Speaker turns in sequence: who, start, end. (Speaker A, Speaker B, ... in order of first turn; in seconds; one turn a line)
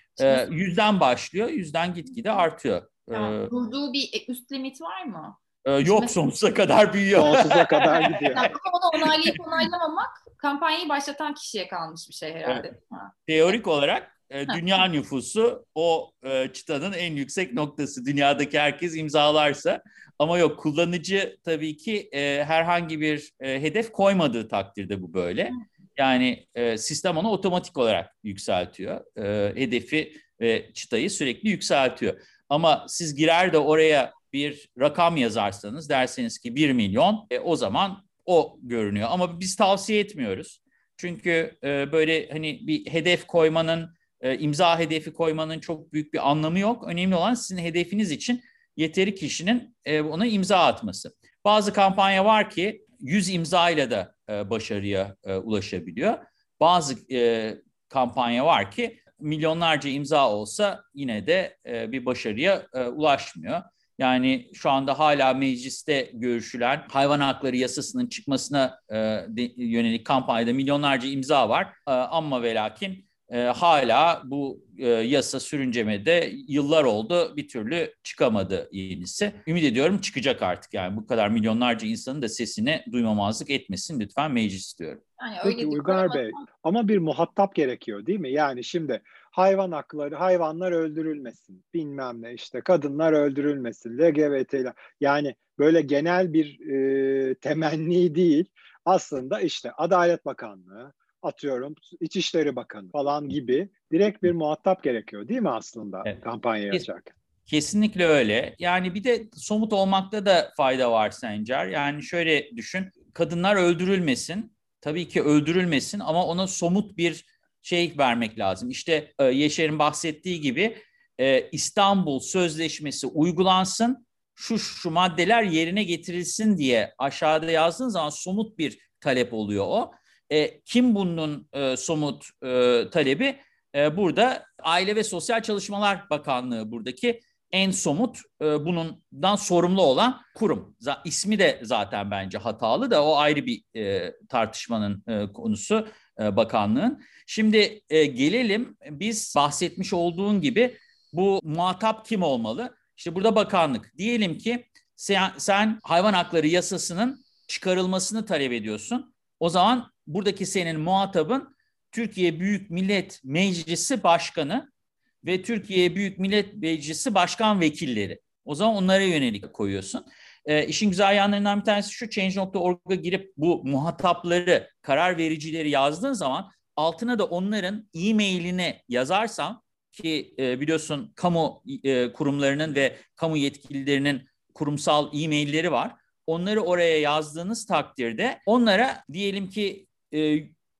Speaker A: 0.2-3.5
Speaker B: 0.2-0.5
Speaker B: 3.1-6.1
Speaker A: 5.7-8.4
Speaker C: 7.1-8.5
Speaker B: 8.3-13.1
Speaker A: 9.0-9.6
Speaker A: 12.5-12.7
Speaker A: 13.3-85.0
Speaker B: 85.2-86.5
Speaker C: 85.4-107.1
Speaker A: 107.5-164.7
Speaker A: 165.2-190.5